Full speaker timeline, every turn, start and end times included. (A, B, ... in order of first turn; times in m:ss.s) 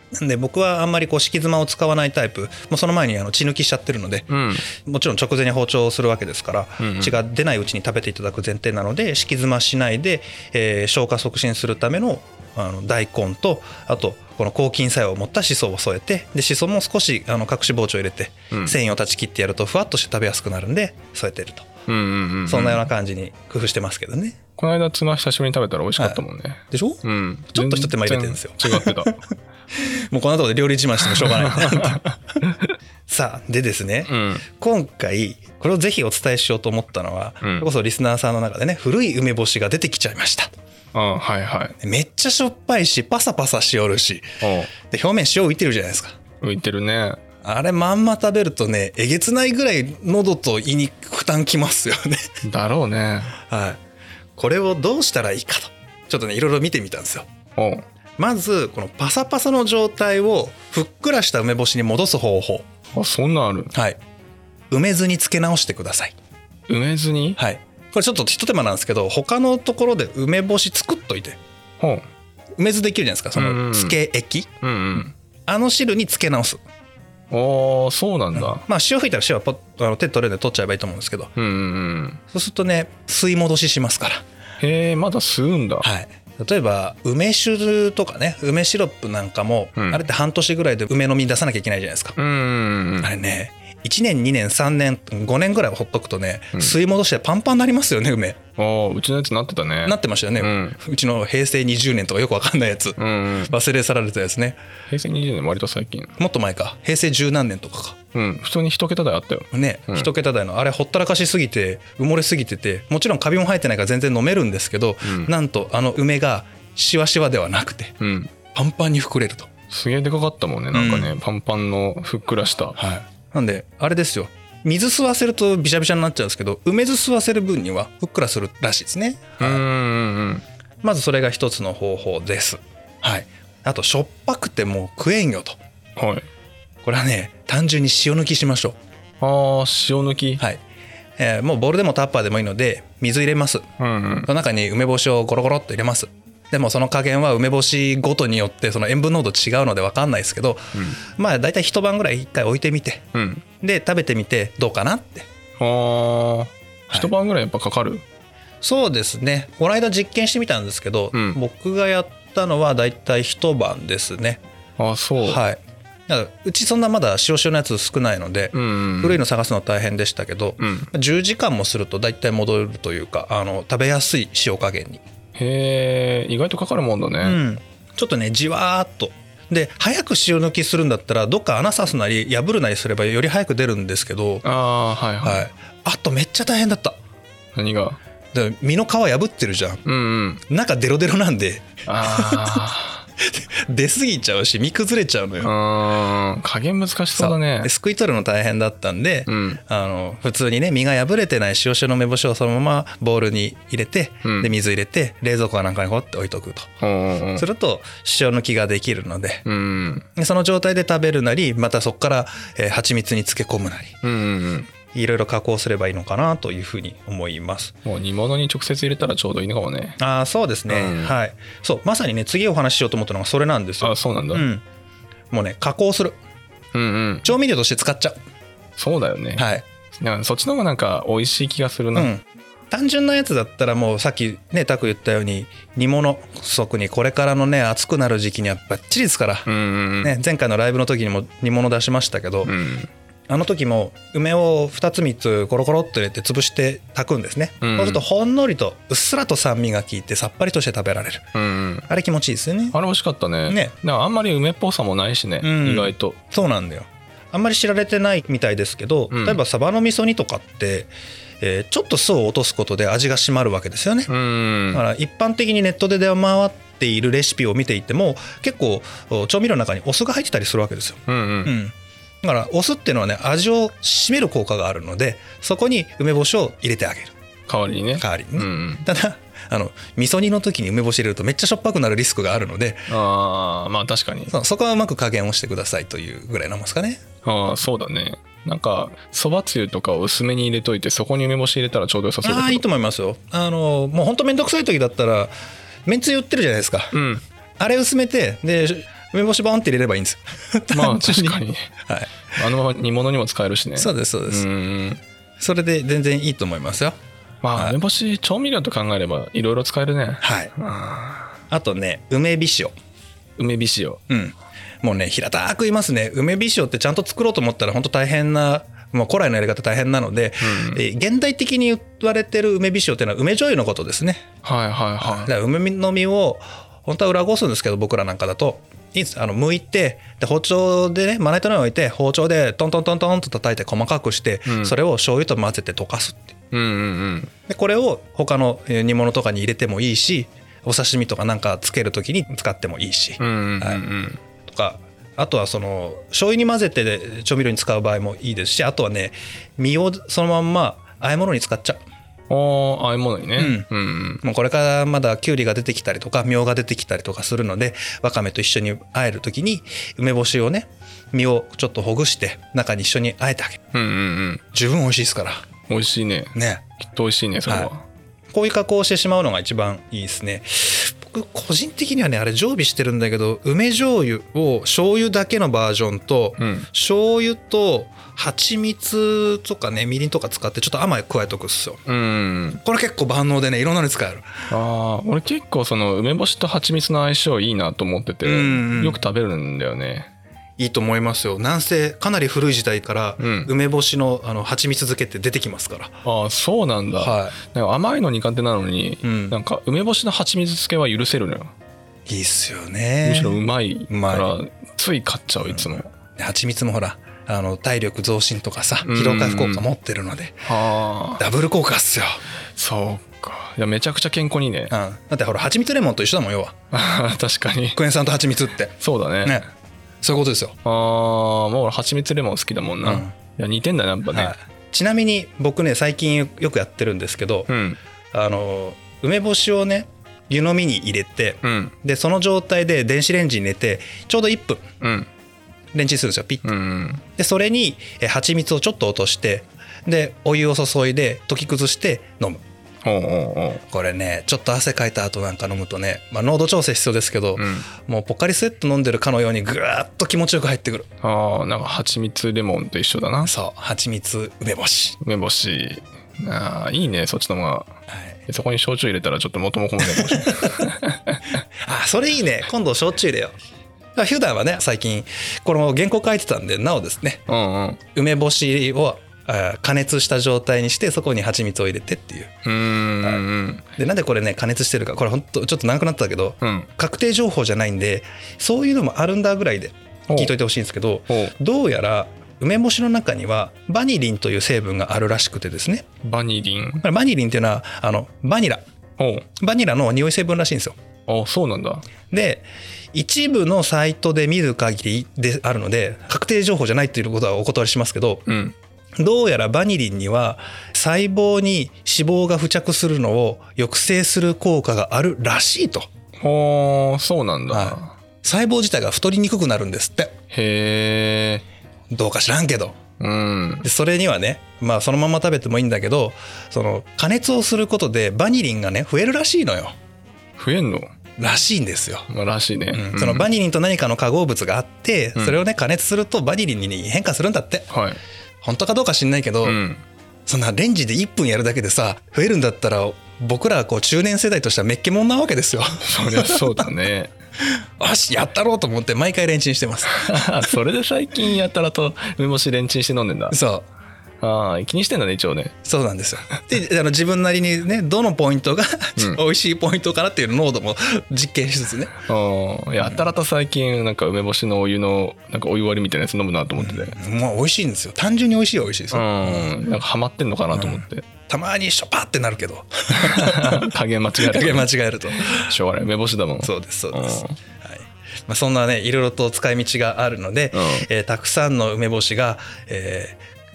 0:00.1-0:21.7 A
0:04.3-0:04.7 B
0:06.8-0:07.2 B
0:18.5-0:18.8 B
0:21.9-0:22.8 B
0:22.5-0:24.4 A
0:24.6-0:29.2 B
0:26.0-0:27.0 A
0:27.5-0:29.2 A
0:29.8-0:32.0 A
0:31.0-0:32.7 B
0:33.1-0:40.5 A
0:34.1-0:34.4 B
0:37.4-0:37.7 B
0:40.9-0:41.8 B
0:41.8-0:46.2 A
0:44.4-0:44.7 B
0:46.4-0:47.2 B
0:47.4-0:52.2 A
0:52.4-0:53.4 B
0:53.4-0:53.8 A
0:54.4-0:57.3 A
0:57.6-0:57.8 B
0:58.2-1:02.7 A
1:02.9-1:03.7 B
1:03.7-1:04.0 A
1:04.7-1:06.1 A
1:06.7-1:07.4 B
1:07.4-1:11.4 A
1:11.8-1:12.0 B
1:12.6-1:14.5 A
1:13.3-1:14.0 B
1:14.6-1:15.1 B
1:15.5-1:16.6 A
1:17.3-1:18.6 B
1:18.3-1:21.3 A
1:21.4-1:22.2 B
1:22.3-1:24.2 A
1:24.6-1:25.9 B
1:25.8-1:32.2 A
1:29.8-1:30.0 B
1:32.2-1:33.1 B
1:33.0-1:38.4 A
1:38.6-1:40.8 B
1:39.8-1:44.6 A
1:43.0-1:43.5 B
1:44.9-1:46.1 B
1:46.2-1:48.0 A
1:48.1-1:50.1 B
1:49.5-1:57.9 A
1:55.0-1:55.3 B
1:58.0-1:58.3 B
1:58.5-1:59.5 A
1:59.7-2:02.8 B
2:00.7-2:01.1 A
2:02.8-2:09.6 A
2:09.4-2:10.4 B
2:10.8-2:15.6 A
2:16.0-2:16.2 B
2:16.8-2:18.8 A
2:19.2-2:20.4 B
2:21.2-2:23.6 A
2:23.8-2:24.3 B
2:24.2-2:33.0 A
2:33.1-2:33.4 B
2:33.6-2:35.3 A
2:35.6-2:38.0 B
2:38.6-2:44.4 A
2:41.1-2:41.4 B
2:44.8-2:45.4 B
2:45.2-2:55.0 A
2:48.5-2:49.2 B
2:50.6-2:50.9 B
2:55.4-2:57.4 B
2:57.2-3:04.4 A
3:04.4-3:05.5 B
3:05.2-3:07.0 A
3:07.5-3:08.0 B
3:08.3-3:09.8 A
3:09.8-3:10.4 B
3:10.5-3:12.6 A
3:11.8-3:13.0 B
3:13.2-3:15.5 A
3:15.4-3:17.7 B
3:17.1-3:26.7 A
3:19.3-3:19.6 B
3:24.2-3:24.5 B
3:26.8-3:27.4 B
3:27.4-3:29.4 A
3:29.4-3:30.1 B
3:30.2-3:33.9 A
3:34.0-3:34.7 B
3:34.9-3:37.7 A
3:37.8-3:40.0 B
3:40.0-3:44.6 A
3:40.7-3:41.1 B
3:43.8-3:44.4 B
3:45.3-3:46.2 A
3:46.7-3:47.3 B
3:47.2-3:48.2 A
3:48.8-3:52.1 B
3:49.4-3:49.6 A
3:51.9-3:59.5 A
3:59.4-4:00.1 B
4:00.0-4:02.5 A
4:02.4-4:02.9 B
4:03.3-4:11.2 A
4:07.6-4:08.0 B
4:11.3-4:11.9 B
4:11.9-4:12.8 A
4:12.7-4:16.2 B
4:13.5-4:13.7 A
4:15.4-4:24.1 A
4:19.1-4:19.4 B
4:24.1-4:24.8 B
4:24.7-4:37.1 A
4:31.1-4:31.5 B
4:37.5-4:38.8 B
4:38.0-4:42.9 A
4:42.9-4:44.3 B
4:44.3-4:47.0 A
4:47.2-4:52.6 B
4:52.2-4:55.3 A
4:55.8-4:56.9 A
4:56.9-4:57.2 B
4:57.6-5:02.1 A
5:00.7-5:01.7 B
5:02.3-5:05.0 B
5:03.8-5:04.4 A
5:05.4-5:07.0 A
5:07.4-5:11.3 B
5:10.2-5:10.5 A
5:11.5-5:12.7 A
5:13.4-5:14.0 B
5:14.1-5:24.2 A
5:20.4-5:20.8 B
5:24.4-5:25.3 B
5:25.0-5:36.3 A
5:34.4-5:34.7 B
5:36.5-5:37.3 B
5:37.5-5:43.8 A
5:43.2-5:44.2 B
5:44.4-5:51.8 A
5:52.3-5:54.2 B
5:53.4-5:53.7 A
5:54.2-6:03.6 A
6:03.7-6:04.4 B
6:04.5-6:05.4 A
6:05.7-6:07.8 B
6:06.3-6:06.6 A
6:08.3-6:21.8 A
6:16.4-6:16.7 B
6:21.8-6:22.6 B
6:22.6-6:24.3 A
6:24.5-6:30.1 B
6:28.2-6:29.0 A
6:30.6-6:36.0 A
6:33.2-6:33.5 B
6:36.0-6:41.5 B
6:37.0-6:37.4 A
6:39.0-6:39.4 A
6:42.1-6:44.3 A
6:43.0-6:45.9 B
6:45.5-6:50.5 A
6:48.8-6:49.6 B
6:50.4-6:51.2 B
6:51.2-6:52.2 A
6:52.6-6:54.7 B
6:54.7-6:56.5 A
6:56.7-6:57.8 B
6:57.8-6:59.4 A
6:58.8-6:59.4 B
7:00.0-7:00.6 A
7:00.6-7:04.3 B
7:02.8-7:03.1 A
7:04.1-7:07.5 A
7:07.5-7:07.8 B
7:08.1-7:14.6 A
7:11.4-7:11.7 B
7:14.8-7:15.1 B
7:15.7-7:16.4 A
7:16.4-7:17.0 B
7:17.2-7:22.4 A
7:22.8-7:23.6 B
7:23.7-7:30.9 A
7:27.4-7:27.7 B
7:31.0-7:33.3 B
7:33.2-7:35.0 A
7:35.0-7:41.4 B
7:37.9-7:38.2 A
7:39.8-7:40.7 A
7:41.6-7:43.4 A
7:43.9-7:47.2 A
7:47.3-7:47.8 B
7:47.9-7:52.3 A
7:52.4-7:53.7 B
7:53.8-8:05.9 A
7:56.4-7:56.7 B
8:01.1-8:01.3 B
8:06.0-8:06.8 B
8:06.8-8:08.6 A
8:09.0-8:09.3 B
8:09.4-8:10.8 A
8:11.1-8:11.8 B
8:12.1-8:18.2 A
8:18.2-8:18.6 B
8:19.0-8:25.9 A
8:26.2-8:28.0 B
8:27.5-8:30.1 A
8:30.3-8:31.4 B
8:31.9-8:32.8 A
8:33.0-8:33.6 B
8:33.6-8:39.7 A
8:40.4-8:40.9 B
8:41.2-8:42.1 A
8:42.1-8:43.3 B
8:42.7-8:47.7 A
8:47.7-8:48.0 B
8:48.4-8:49.6 A
8:49.4-8:49.8 B
8:50.3-8:56.7 A
8:55.8-8:57.1 B
8:57.8-9:00.2 A
8:59.9-9:03.4 B
9:03.3-9:03.6 A
9:04.2-9:05.5 B
9:05.6-9:11.9 A
9:12.0-9:17.0 B
9:16.6-9:19.5 A
9:18.9-9:21.0 B
9:20.5-9:25.5 A
9:22.9-9:27.4 B
9:26.4-9:33.2 A
9:30.5-9:30.9 B